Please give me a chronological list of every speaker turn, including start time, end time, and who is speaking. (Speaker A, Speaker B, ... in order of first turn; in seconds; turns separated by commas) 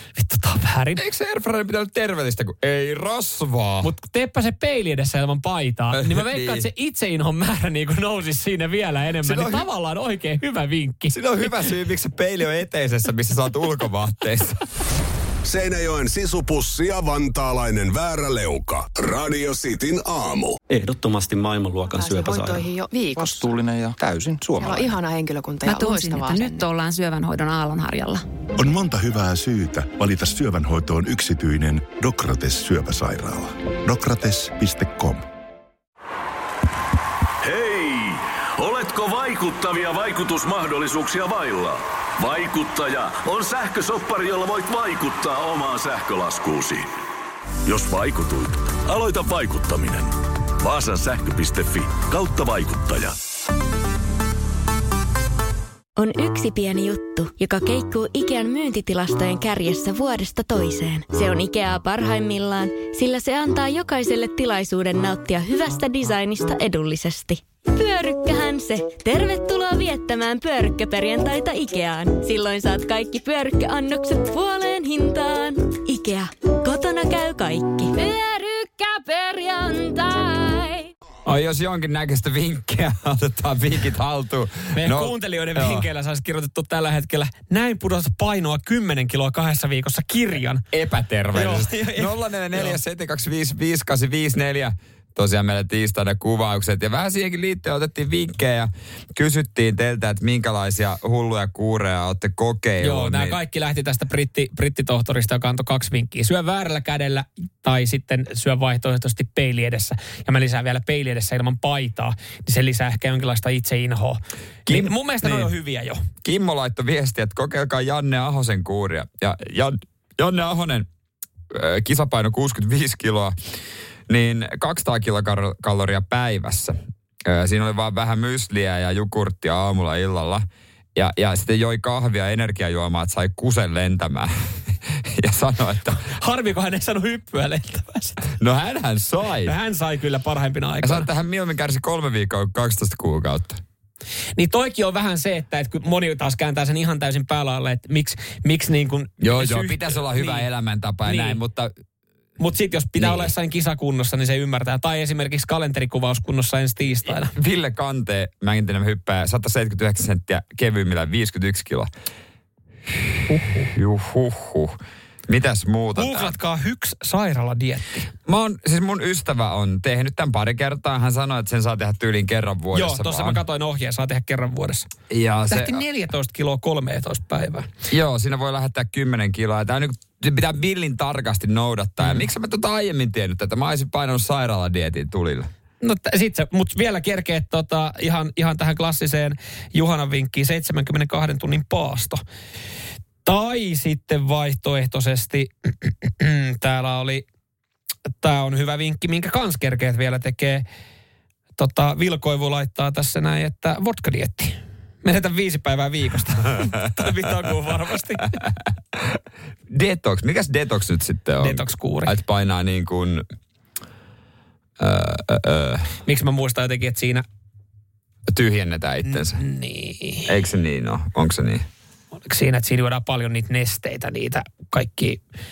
Speaker A: 0.1-1.0, Speaker B: 0.9-3.9, Speaker A: 3.8-11.2, Speaker B: 5.9-6.7, Speaker B: 9.2-9.7, Speaker B: 11.1-14.6, Speaker C: 15.4-20.6, Speaker D: 20.7-25.0, Speaker E: 21.9-23.5, Speaker E: 24.6-26.6, Speaker F: 25.6-28.2, Speaker G: 28.6-35.3, Speaker H: 37.4-46.9, Speaker H: 47.6-53.1, Speaker I: 56.0-80.9, Speaker B: 81.2-85.9, Speaker A: 84.7-90.6, Speaker B: 90.7-103.4, Speaker A: 91.3-92.8, Speaker A: 102.8-116.0, Speaker B: 114.7-115.5, Speaker B: 116.2-120.9, Speaker B: 121.5-123.3, Speaker B: 124.1-136.0, Speaker A: 136.1-138.3, Speaker B: 138.4-139.5, Speaker A: 139.4-141.1, Speaker B: 140.8-143.6, Speaker A: 144.4-150.4, Speaker B: 149.2-151.7, Speaker A: 151.1-151.4, Speaker A: 152.4-157.3, Speaker B: 153.0-153.3, Speaker B: 157.1-161.9, Speaker A: 163.3-163.7, Speaker B: 163.6-166.4, Speaker A: 165.9-168.1, Speaker B: 168.3-173.4, Speaker A: 172.7-174.9, Speaker B: 175.1-175.8, Speaker A: 175.5-177.7, Speaker B: 177.9-185.5, Speaker A: 185.8-192.2, Speaker A: 193.2-197.3, Speaker A: 198.2-200.6, Speaker A: 201.6-208.4, Speaker B: 209.7-213.2, Speaker A: 211.4-212.1, Speaker B: 214.8-215.9, Speaker A: 216.1-217.2, Speaker B: 218.3-219.4, Speaker A: 219.1-220.3, Speaker B: 220.3-221.7, Speaker A: 222.2-225.2